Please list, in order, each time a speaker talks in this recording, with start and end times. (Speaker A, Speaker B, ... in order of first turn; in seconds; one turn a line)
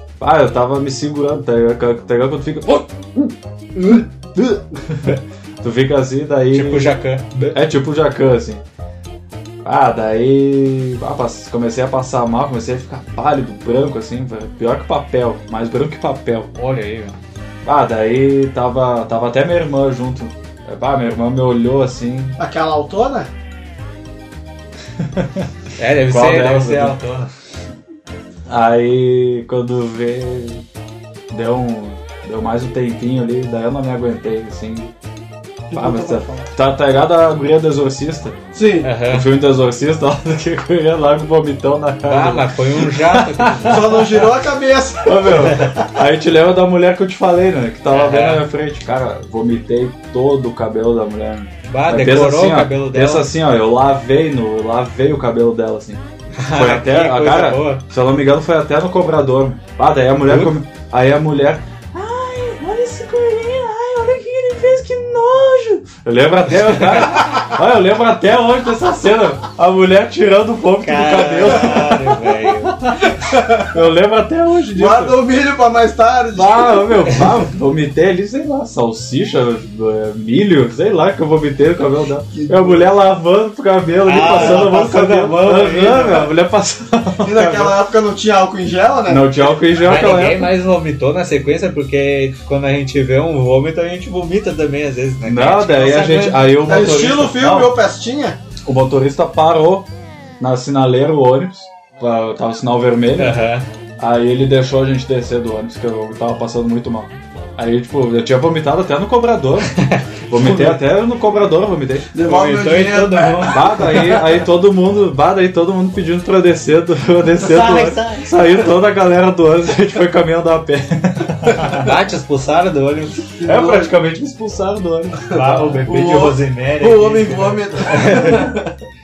Speaker A: 0.2-7.0
Speaker B: 6.5-7.6
Speaker A: 7.5-8.6
Speaker A: 9.6-16.5
Speaker B: 16.5-17.1
Speaker A: 17.6-22.4
Speaker C: 22.4-23.3
Speaker A: 25.0-25.4
Speaker B: 25.8-27.3
Speaker A: 26.1-26.9
Speaker A: 28.5-30.6
Speaker A: 31.3-34.9
Speaker C: 35.7-36.5
Speaker A: 35.7-38.4
Speaker C: 38.5-38.9
Speaker B: 38.8-39.3
Speaker A: 39.1-44.3
Speaker B: 42.0-44.0
Speaker C: 43.6-45.9
Speaker A: 45.0-73.1
Speaker B: 47.9-48.4
Speaker B: 51.7-53.3
Speaker B: 56.3-57.8
Speaker B: 60.2-60.6
Speaker B: 66.5-67.4
Speaker B: 70.8-72.8
Speaker C: 73.1-73.7
Speaker A: 73.7-75.1
Speaker C: 74.7-77.1
Speaker A: 76.3-87.7
Speaker C: 82.3-82.9
Speaker B: 84.0-86.3
Speaker C: 84.3-84.7
Speaker C: 87.2-89.4
Speaker A: 89.1-90.5
Speaker B: 89.8-96.5
Speaker A: 95.2-97.7
Speaker C: 96.5-98.4
Speaker A: 98.6-99.9
Speaker A: 100.4-103.5
Speaker B: 103.2-103.7
Speaker A: 104.0-112.1
Speaker B: 109.7-110.8
Speaker C: 112.1-114.4
Speaker B: 112.2-113.8
Speaker A: 113.5-121.9
Speaker B: 117.3-118.3
Speaker B: 121.7-123.3
Speaker C: 123.3-123.9
Speaker A: 123.4-125.8
Speaker B: 125.3-128.6
Speaker C: 125.3-128.7